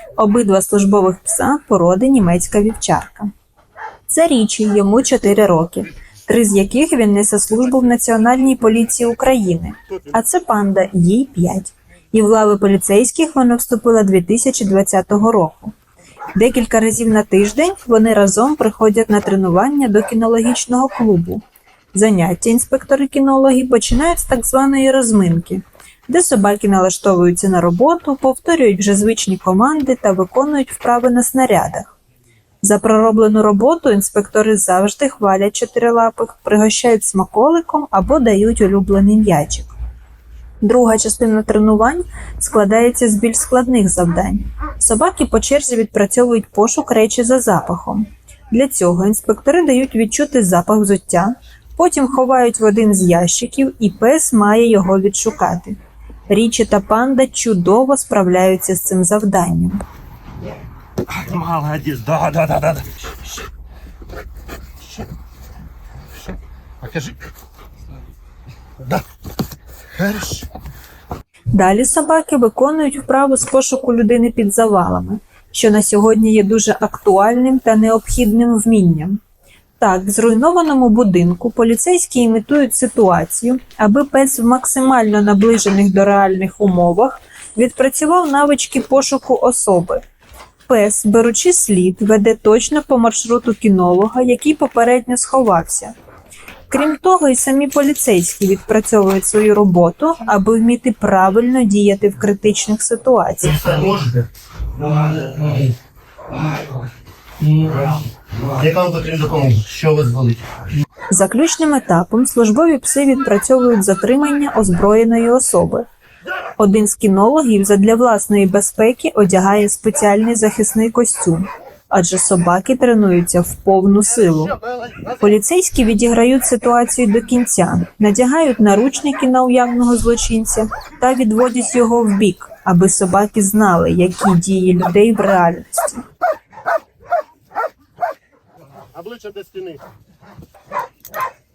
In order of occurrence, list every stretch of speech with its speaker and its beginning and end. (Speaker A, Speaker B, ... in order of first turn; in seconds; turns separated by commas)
Speaker A: 0.1-3.3, Speaker A: 4.1-15.7, Speaker A: 16.3-31.9, Speaker A: 32.6-39.7, Speaker A: 40.6-55.8, Speaker A: 56.3-59.8, Speaker B: 61.1-63.1, Speaker B: 66.8-67.1, Speaker B: 70.0-70.4, Speaker A: 71.5-79.2, Speaker A: 79.8-90.0, Speaker A: 90.7-95.9, Speaker A: 96.7-103.8, Speaker B: 103.7-105.7, Speaker B: 107.4-110.6, Speaker A: 111.1-115.8, Speaker A: 116.6-124.6, Speaker A: 125.2-136.1, Speaker B: 138.9-139.8